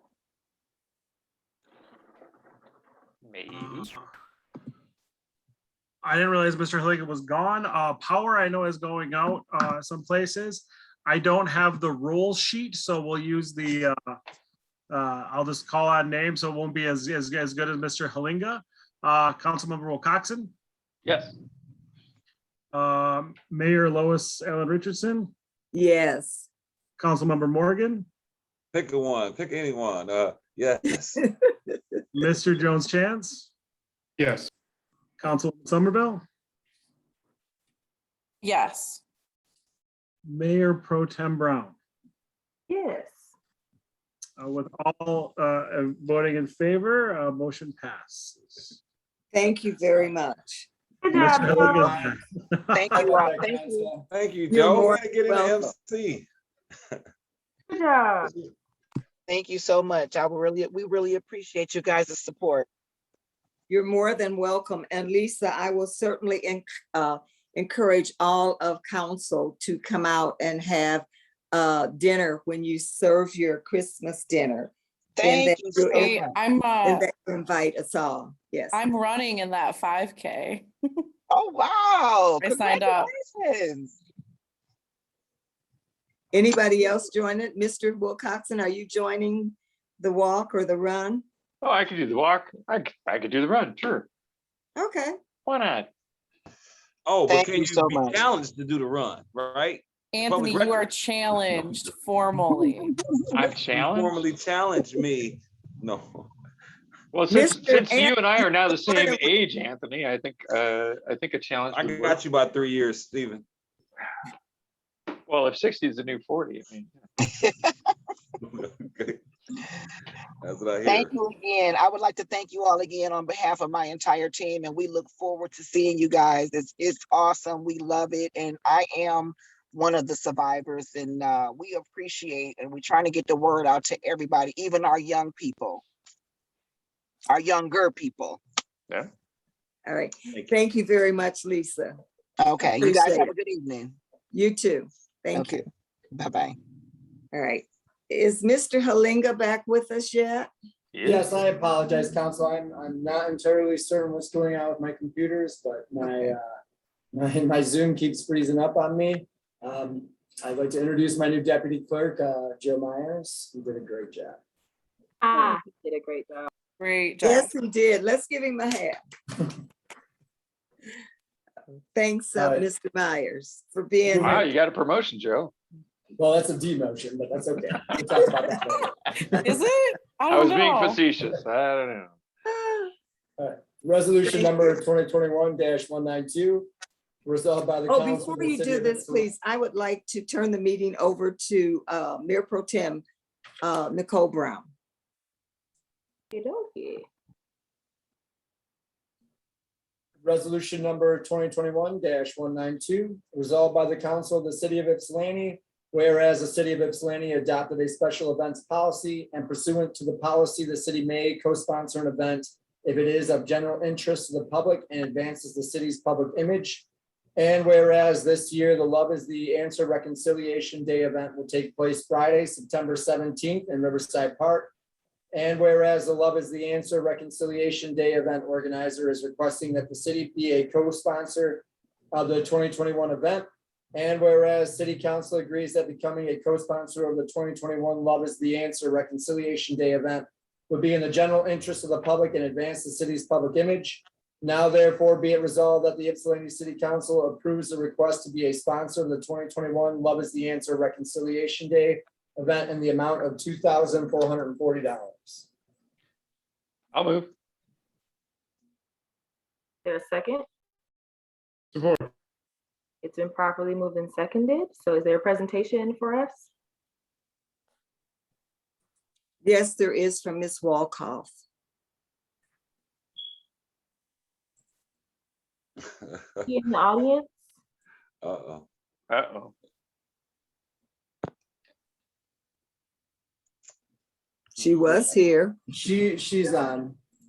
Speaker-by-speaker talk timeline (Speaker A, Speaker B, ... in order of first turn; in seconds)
Speaker A: 3.2-3.9, 21.1-21.4, 91.6-94.1, 95.5-95.9, 103.3-104.2, 107.1-112.2, 115.3-116.9, 150.9-151.3, 174.2-175.5, 180.3-182.2, 256.9-257.3, 279.1-279.5
Speaker B: 3.5-4.0, 6.0-13.9, 14.9-20.5, 22.7-25.3, 27.0-28.1, 32.1-33.5, 35.2-36.2, 40.3-41.8, 44.4-48.8, 51.1-53.1
Speaker C: 25.7-26.5, 49.3-50.7, 54.5-55.7, 63.7-76.3, 76.8-78.8, 86.3-91.2, 94.8-95.2, 107.3-109.3, 139.9-142.0, 142.8-143.3, 144.3-145.7, 147.3-150.5, 167.2-169.0, 171.9-174.4, 182.5-182.9, 184.2-184.7, 187.9-193.0, 193.6-194.7, 269.4-271.3, 284.6-285.6
Speaker D: 28.7-31.2, 54.1-56.3, 97.0-100.9, 103.7-106.3, 111.7-113.5, 118.4-119.2, 120.4-121.2, 276.1-276.6, 278.2-278.7
Speaker E: 38.4-39.0, 76.0-77.1, 78.7-80.7, 82.4-83.1, 100.1-102.9, 166.8-167.5, 179.4-180.9
Speaker F: 51.2-51.6, 57.7-58.3, 165.2-166.5, 196.3-197.1, 259.9-260.4, 263.0-266.5, 276.5-277.3
Speaker G: 51.3-51.8, 52.9-54.0, 151.0-156.6, 157.1-164.4, 172.4-172.7, 174.1-174.4, 176.2-179.5, 183.4-186.7, 187.3-189.3, 200.2-216.9, 217.4-224.7, 225.3-255.5, 285.7-287.0
Speaker H: 51.8-52.1, 52.7-53.9, 59.3-62.7, 75.2-76.3, 81.3-84.0, 97.3-98.3, 102.6-103.5, 117.2-117.7, 120.8-135.8, 137.3-138.4, 142.4-144.0, 145.3-146.6